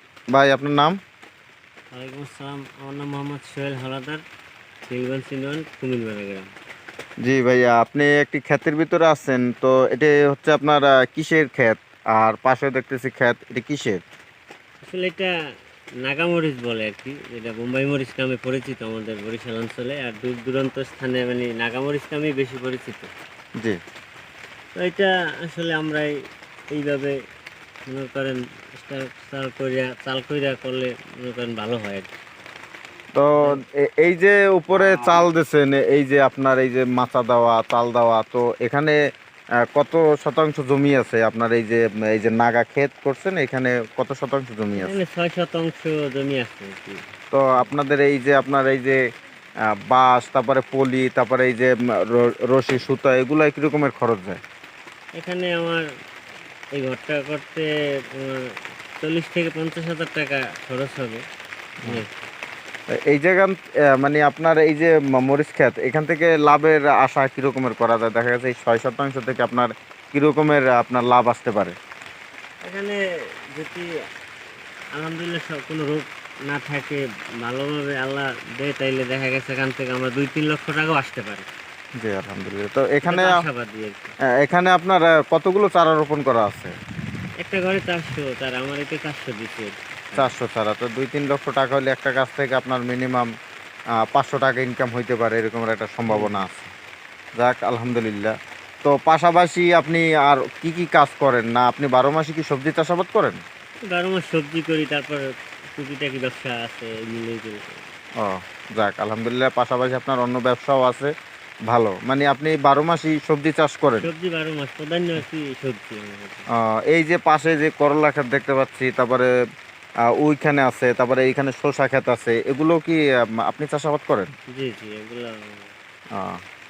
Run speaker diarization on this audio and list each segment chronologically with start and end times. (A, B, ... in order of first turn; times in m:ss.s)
0:00.3-0:01.0 A
0:01.9-0:04.2 B
0:04.9-0:06.5 B
0:07.2-0:14.0 A
0:14.8-0:15.3 B
0:16.0-0:23.1 B
0:24.8-0:26.1 B
0:26.7-0:27.2 B
0:27.9-0:32.1 B
0:33.2-0:39.0 A
0:34.7-0:35.2 B
0:39.7-0:45.0 A
0:44.8-0:47.7 B
0:47.3-0:49.0 A
0:49.9-0:54.4 A
0:55.2-0:55.8 B
0:56.7-1:01.2 B
1:01.9-1:02.2 B
1:03.0-1:11.8 A
1:12.6-1:13.0 B
1:13.5-1:13.9 B
1:14.9-1:21.5 B
1:22.0-1:23.4 A
1:23.0-1:24.1 B
1:24.4-1:26.8 A
1:27.4-1:30.3 B
1:30.2-1:33.3 A
1:34.1-1:36.7 A
1:36.1-1:36.5 B
1:37.4-1:43.4 A
1:43.9-1:45.2 B
1:45.8-1:47.6 B
1:48.2-1:51.1 A
1:51.7-1:54.1 A
1:54.0-1:56.5 B
1:56.6-1:59.3 A
2:00.2-2:04.3 A
2:04.5-2:05.7 B
2:06.2-2:06.4 A